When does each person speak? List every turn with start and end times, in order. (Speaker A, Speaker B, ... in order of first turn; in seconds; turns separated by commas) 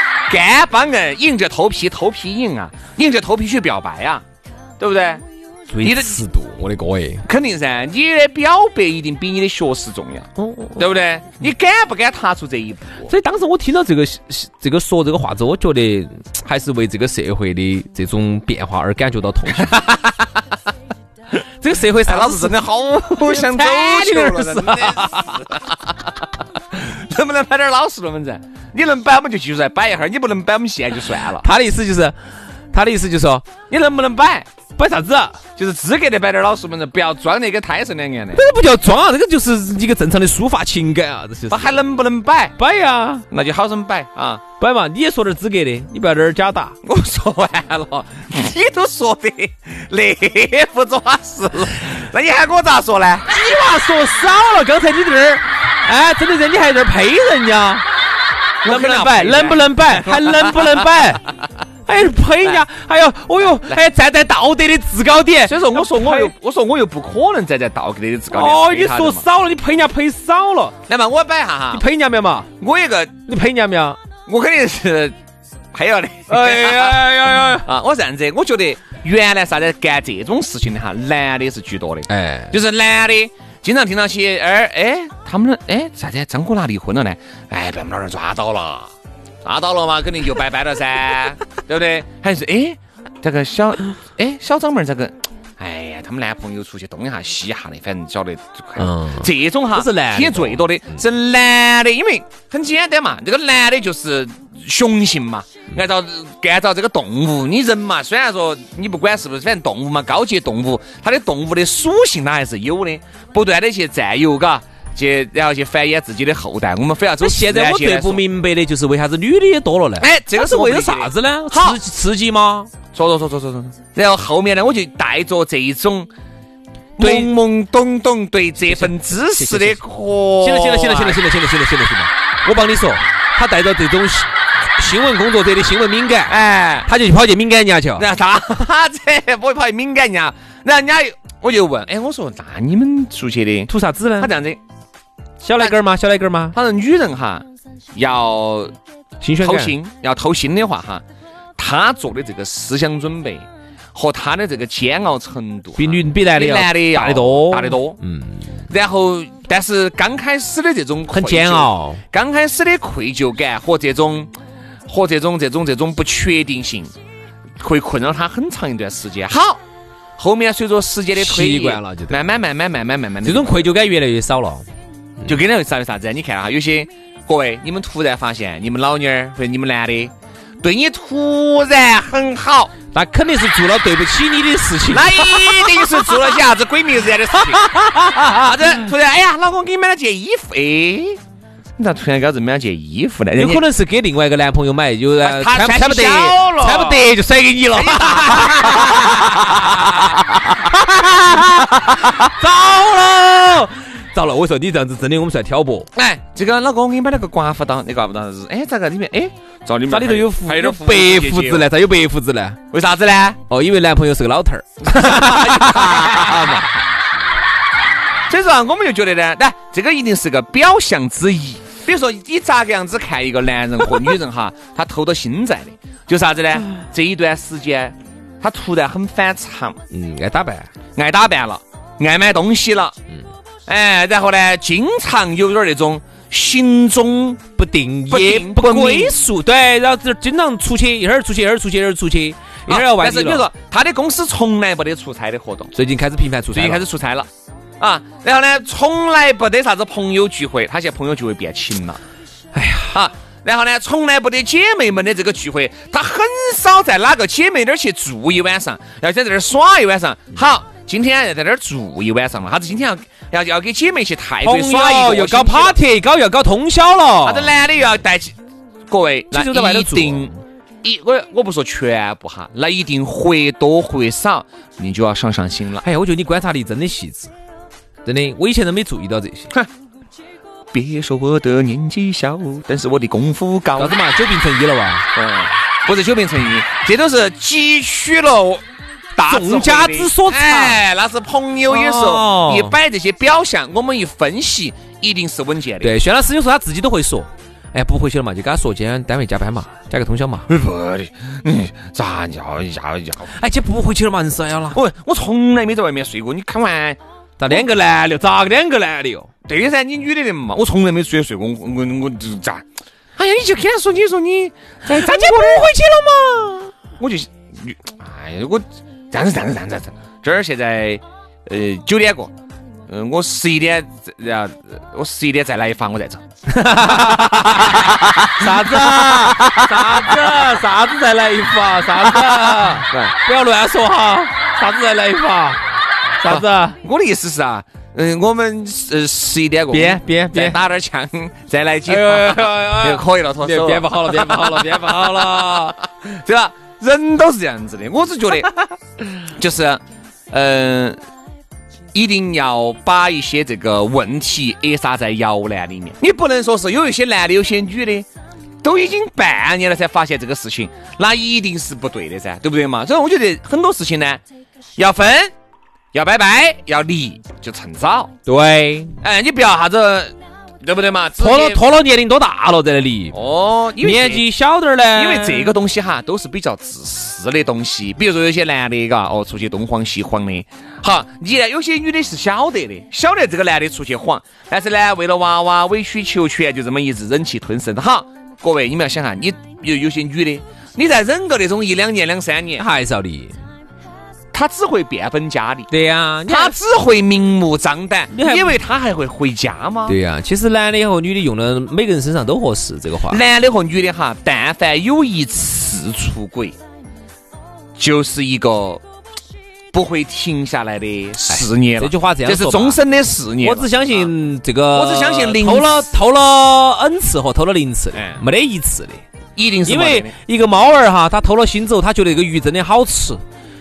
Speaker A: 0.3-4.2, Speaker A: 4.8-5.2, Speaker B: 5.7-7.2, Speaker A: 5.8-6.2, Speaker A: 7.2-13.1, Speaker B: 10.4-10.8, Speaker B: 13.1-19.7, Speaker A: 19.5-20.4, Speaker B: 21.6-22.6, Speaker A: 22.0-26.2, Speaker B: 23.2-25.4, Speaker A: 26.7-31.4, Speaker B: 31.4-32.1, Speaker B: 32.7-33.4, Speaker A: 33.7-34.5, Speaker B: 34.8-35.4, Speaker A: 35.6-38.4, Speaker B: 38.3-41.8, Speaker A: 41.5-42.5, Speaker B: 42.6-43.2, Speaker A: 43.3-44.4, Speaker B: 44.6-46.7, Speaker A: 46.8-53.3, Speaker B: 53.3-57.8, Speaker A: 58.6-60.9, Speaker B: 58.6-61.2, Speaker B: 61.9-66.3, Speaker A: 65.5-69.2, Speaker B: 68.3-70.7, Speaker A: 70.9-71.8, Speaker B: 71.7-72.5, Speaker A: 72.6-73.1, Speaker B: 73.3-74.0, Speaker A: 74.2-75.1, Speaker A: 75.7-88.9, Speaker B: 76.3-77.7, Speaker B: 82.1-82.5, Speaker A: 89.4-118.2, Speaker B: 98.8-100.7, Speaker B: 117.2-122.7, Speaker A: 120.0-121.8, Speaker A: 122.9-126.1, Speaker A: 127.0-131.2, Speaker B: 127.0-127.3, Speaker B: 128.7-129.8, Speaker B: 130.4-138.1, Speaker A: 136.3-136.9, Speaker A: 138.0-144.6, Speaker B: 143.7-144.3, Speaker B: 145.4-146.6, Speaker A: 146.5-148.7, Speaker B: 149.2-149.8, Speaker A: 149.4-151.0, Speaker A: 151.6-158.0, Speaker B: 155.8-158.6, Speaker A: 158.7-164.3, Speaker B: 161.1-162.0, Speaker A: 164.9-166.9, Speaker A: 167.6-169.6, Speaker A: 170.2-173.7, Speaker B: 171.2-172.2, Speaker B: 173.2-174.7, Speaker A: 175.2-182.7, Speaker B: 182.9-186.2, Speaker A: 184.9-191.2, Speaker B: 187.4-188.5, Speaker A: 191.8-193.7, Speaker B: 193.3-205.9, Speaker A: 195.2-197.1, Speaker A: 197.7-200.1, Speaker A: 201.9-202.1, Speaker A: 205.9-211.7, Speaker B: 209.9-212.6, Speaker A: 212.7-213.4, Speaker B: 213.5-216.7, Speaker A: 214.8-216.7, Speaker A: 218.3-229.8, Speaker B: 229.9-230.7, Speaker A: 230.9-233.0, Speaker A: 233.7-237.4, Speaker B: 237.6-243.5, Speaker A: 238.1-239.2, Speaker A: 242.7-245.7, Speaker B: 245.7-246.8, Speaker A: 246.5-247.3, Speaker A: 247.8-252.0, Speaker B: 252.5-253.0, Speaker A: 252.9-265.8, Speaker B: 264.4-267.5, Speaker A: 267.2-268.4, Speaker A: 268.9-270.3, Speaker B: 269.3-270.4, Speaker A: 270.8-275.8, Speaker B: 275.8-277.3, Speaker B: 278.0-279.5, Speaker A: 280.7-284.0, Speaker B: 283.8-285.1, Speaker A: 285.1-288.6, Speaker A: 289.1-295.9, Speaker B: 289.3-290.8, Speaker B: 291.7-292.8, Speaker B: 295.8-300.5, Speaker A: 300.5-303.3, Speaker B: 303.3-304.8, Speaker A: 304.7-307.6, Speaker B: 307.4-309.3, Speaker A: 309.4-312.6, Speaker A: 313.2-315.7, Speaker B: 314.9-316.7, Speaker A: 317.0-322.3, Speaker A: 322.9-326.2, Speaker B: 326.5-335.6, Speaker A: 327.6-330.4, Speaker A: 332.0-333.1, Speaker B: 336.2-336.8, Speaker A: 336.3-348.5, Speaker B: 339.7-340.6, Speaker B: 341.9-345.7, Speaker A: 349.2-351.0, Speaker A: 351.9-358.1, Speaker A: 358.6-364.2, Speaker A: 364.8-365.3, Speaker A: 365.9-368.1, Speaker B: 368.2-368.9, Speaker A: 369.0-371.6, Speaker B: 371.2-373.1, Speaker A: 373.1-374.2, Speaker B: 373.8-375.5, Speaker A: 374.9-392.6, Speaker B: 392.6-393.3, Speaker A: 394.3-395.7, Speaker B: 395.7-396.6, Speaker A: 396.2-400.0, Speaker B: 398.1-398.6, Speaker B: 399.9-403.2, Speaker A: 403.1-406.6, Speaker A: 407.8-408.8, Speaker A: 409.7-414.1, Speaker B: 411.3-412.8, Speaker B: 413.4-419.0, Speaker A: 414.7-415.9, Speaker A: 417.9-418.2, Speaker A: 419.4-420.1, Speaker B: 419.6-423.2